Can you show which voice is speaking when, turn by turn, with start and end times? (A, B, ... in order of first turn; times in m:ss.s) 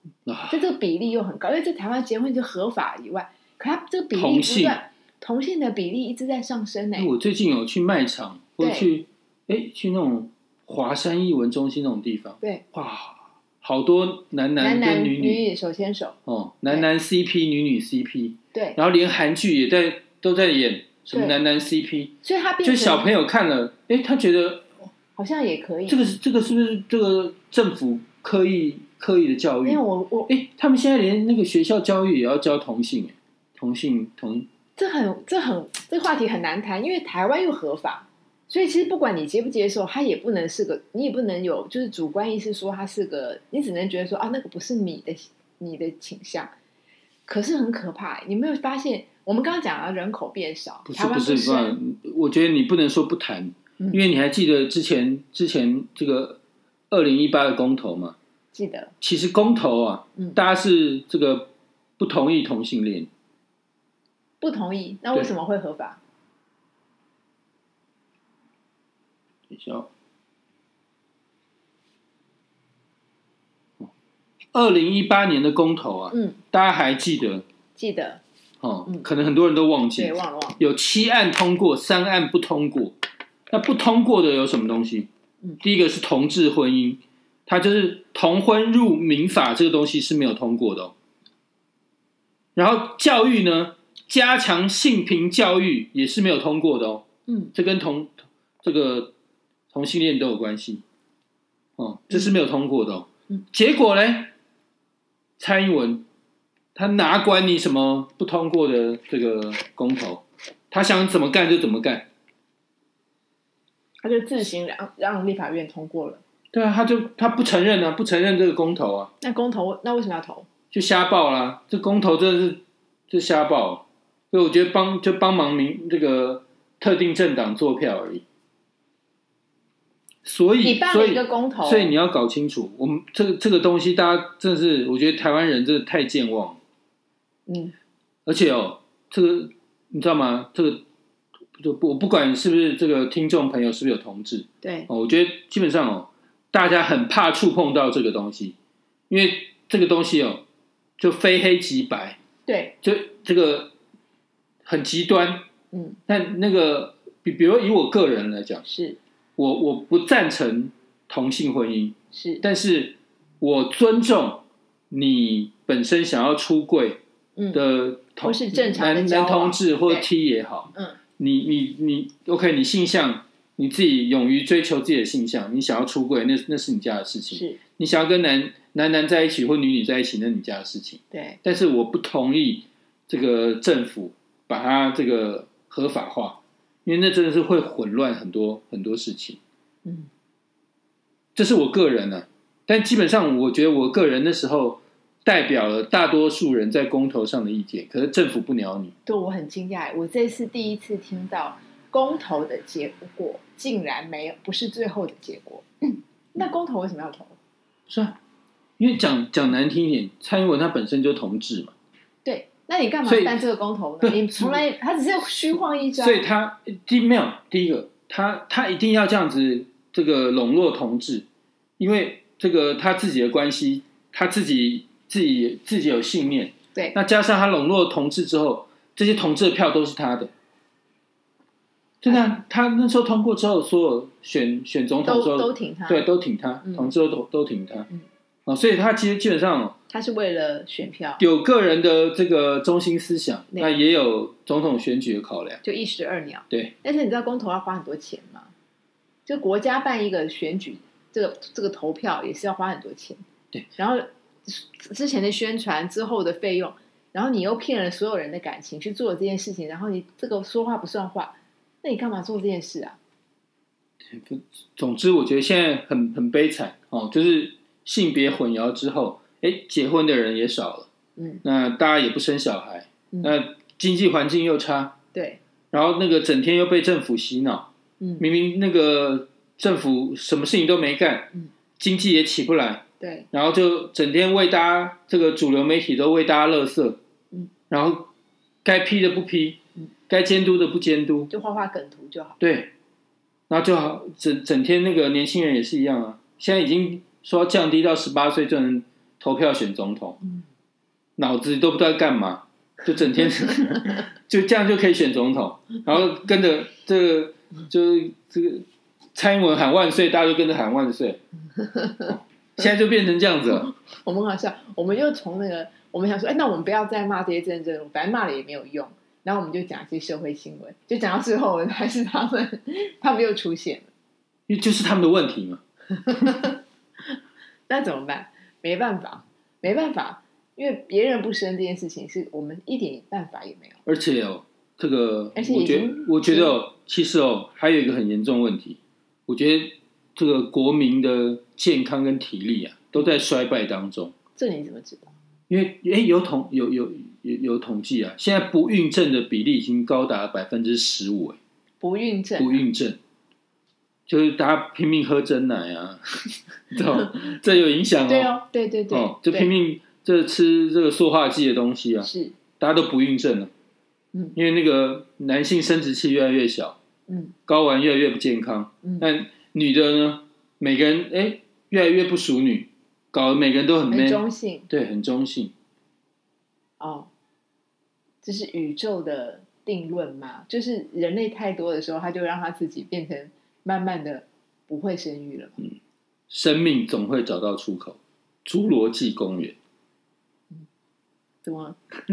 0:00.3-0:00.6 A
0:00.5-0:07.1 B
0:04.2-0:04.8 A
0:07.0-0:15.5 A
0:08.6-0:08.9 B
0:14.6-0:16.9 B
0:16.3-0:24.9 A
0:18.5-0:18.8 B
0:21.1-0:21.4 B
0:22.2-0:23.1 B
0:25.2-0:26.1 B
0:25.9-0:34.5 A
0:29.6-0:30.3 B
0:34.8-0:46.5 B
0:47.3-0:51.8 B
0:50.9-0:56.4 A
0:56.9-0:58.2 A
0:58.5-0:58.9 B
0:59.0-1:03.1 A
1:04.4-1:06.0 B
1:09.5-1:09.9 A
1:14.5-1:17.4 A
1:16.1-1:16.4 B
1:17.8-1:18.2 B
1:18.6-1:23.0 A
1:20.0-1:20.6 B
1:23.5-1:25.1 A
1:25.6-1:30.9 A
1:32.6-1:39.1 A
1:37.3-1:37.5 B
1:39.7-1:40.8 A
1:41.8-1:44.3 A
1:45.4-1:46.1 A
1:46.8-1:52.1 A
1:54.0-1:56.2 B
1:56.5-1:59.1 A
1:59.2-2:00.5 B
2:00.7-2:08.2 A
2:10.2-2:16.6 A
2:10.6-2:12.0 B
2:17.5-2:17.7 B
2:18.3-2:20.8 A
2:21.6-2:28.6 A
2:24.6-2:24.9 B
2:29.1-2:30.4 A
2:31.0-2:32.2 A
2:32.5-2:32.8 B
2:32.8-2:33.7 A
2:34.7-2:35.4 A
2:35.7-2:36.0 B
2:36.1-2:38.6 A
2:38.6-2:39.0 B
2:39.4-2:47.0 A
2:42.1-2:42.4 B
2:47.4-2:47.6 B
2:47.5-3:09.4 A
2:48.2-2:50.1 B
2:57.3-2:57.6 B
3:01.1-3:01.4 B
3:11.4-3:18.9 A
3:19.1-3:27.4 B
3:27.9-3:28.2 A
3:28.8-3:31.7 A
3:32.2-3:36.2 B
3:33.0-3:33.4 A
3:34.0-3:34.6 A
3:36.0-3:41.3 A
3:41.8-3:50.3 A
3:52.0-3:57.9 A
3:55.0-3:56.1 B
3:56.6-3:56.9 B
3:58.5-3:59.8 A
3:59.9-4:01.2 B
4:01.2-4:05.6 A
4:03.5-4:03.8 B
4:05.6-4:08.5 B
4:09.3-4:13.2 B
4:13.8-4:23.0 B
4:24.1-4:30.9 A
4:31.2-4:31.4 B
4:31.4-4:35.0 A
4:35.1-4:35.4 B
4:35.7-4:37.7 A
4:38.0-4:38.2 B
4:38.2-4:47.0 A
4:43.0-4:43.3 B
4:47.7-4:48.1 A
4:48.6-4:51.3 A
4:51.3-4:52.4 B
4:52.4-4:52.7 A
4:53.5-5:00.2 A
5:01.2-5:11.2 A
5:11.8-5:12.1 B
5:12.1-5:13.7 A
5:13.5-5:23.9 B
5:24.5-5:25.6 A
5:26.1-5:26.6 B
5:27.7-5:33.8 B
5:33.9-5:44.1 A
5:35.4-5:36.6 B
5:44.4-5:45.1 B
5:45.5-5:51.4 A
5:51.8-5:52.6 B
5:52.4-5:53.0 A
5:54.1-5:58.3 A
5:58.1-5:59.5 B
5:58.9-6:03.5 A
6:02.0-6:02.4 B
6:04.4-6:06.8 A
6:07.1-6:07.3 B
6:07.5-6:15.5 A
6:13.9-6:14.7 B
6:16.8-6:17.1 B
6:18.2-6:25.6 B
6:26.3-6:29.6 A
6:31.4-6:31.8 B